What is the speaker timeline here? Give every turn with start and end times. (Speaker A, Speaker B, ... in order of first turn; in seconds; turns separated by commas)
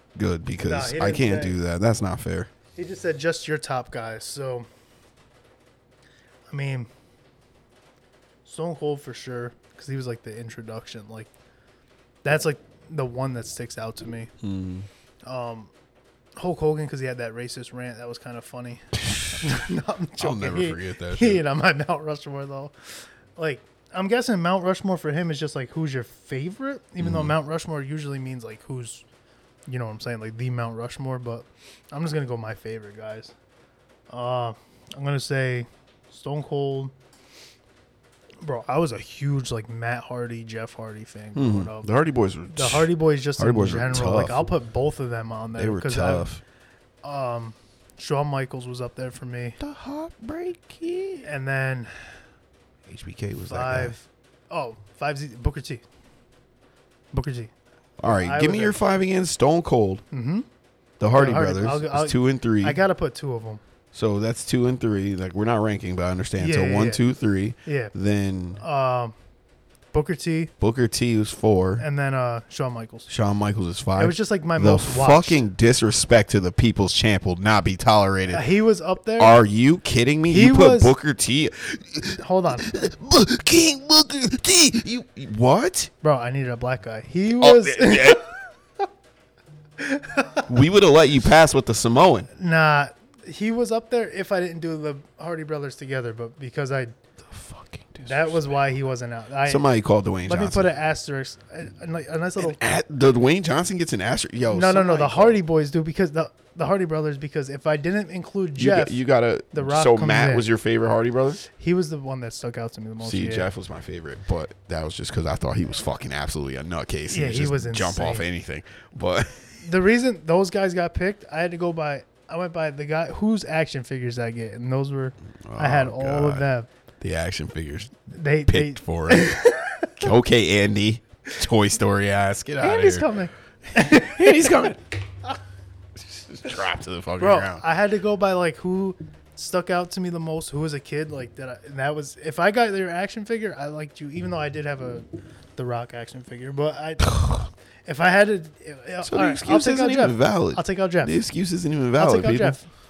Speaker A: 0.1-2.5, Speaker B: 0.6-1.6, Speaker B: 2.8-4.7, Speaker B: 6.5-6.9, Speaker B: 8.4-11.3, Speaker B: 12.2-14.3, Speaker A: 14.4-14.9, Speaker B: 15.3-15.7, Speaker B: 16.4-29.1, Speaker A: 20.2-21.4, Speaker A: 27.0-27.4, Speaker B: 29.7-33.3, Speaker B: 34.1-36.9, Speaker B: 38.4-41.9, Speaker A: 41.4-44.5, Speaker B: 42.5-46.3, Speaker A: 45.6-46.4, Speaker B: 47.0-49.6, Speaker A: 49.6-51.3, Speaker B: 51.2-52.1, Speaker A: 52.9-54.0, Speaker B: 53.5-55.8, Speaker B: 57.1-58.8, Speaker A: 58.0-60.0, Speaker B: 60.1-60.5, Speaker A: 61.0-62.8, Speaker B: 61.1-63.6, Speaker A: 63.9-68.6, Speaker B: 66.4-67.0, Speaker B: 67.7-67.9, Speaker B: 68.6-69.2, Speaker B: 69.9-70.5, Speaker A: 70.6-71.8, Speaker B: 71.8-73.1, Speaker A: 73.1-78.4, Speaker B: 74.0-75.4, Speaker B: 78.3-79.4, Speaker A: 79.2-85.9, Speaker B: 80.3-80.9, Speaker B: 82.2-82.7, Speaker B: 86.0-88.4, Speaker A: 87.3-88.3, Speaker B: 89.8-90.5, Speaker A: 90.5-92.3, Speaker B: 92.3-96.9, Speaker A: 97.2-98.5, Speaker B: 98.0-99.7, Speaker A: 99.5-100.7, Speaker B: 100.3-102.6, Speaker A: 102.4-105.4, Speaker B: 104.5-109.0, Speaker A: 108.6-111.4, Speaker B: 109.5-110.5, Speaker B: 111.4-113.5, Speaker A: 113.0-119.6, Speaker B: 117.1-118.3, Speaker B: 119.6-126.7, Speaker A: 125.5-126.5, Speaker A: 127.0-133.2, Speaker B: 128.1-130.1, Speaker B: 132.6-134.6, Speaker A: 133.7-134.9, Speaker A: 136.0-137.6, Speaker B: 137.2-151.2, Speaker A: 149.0-152.6, Speaker B: 152.0-152.7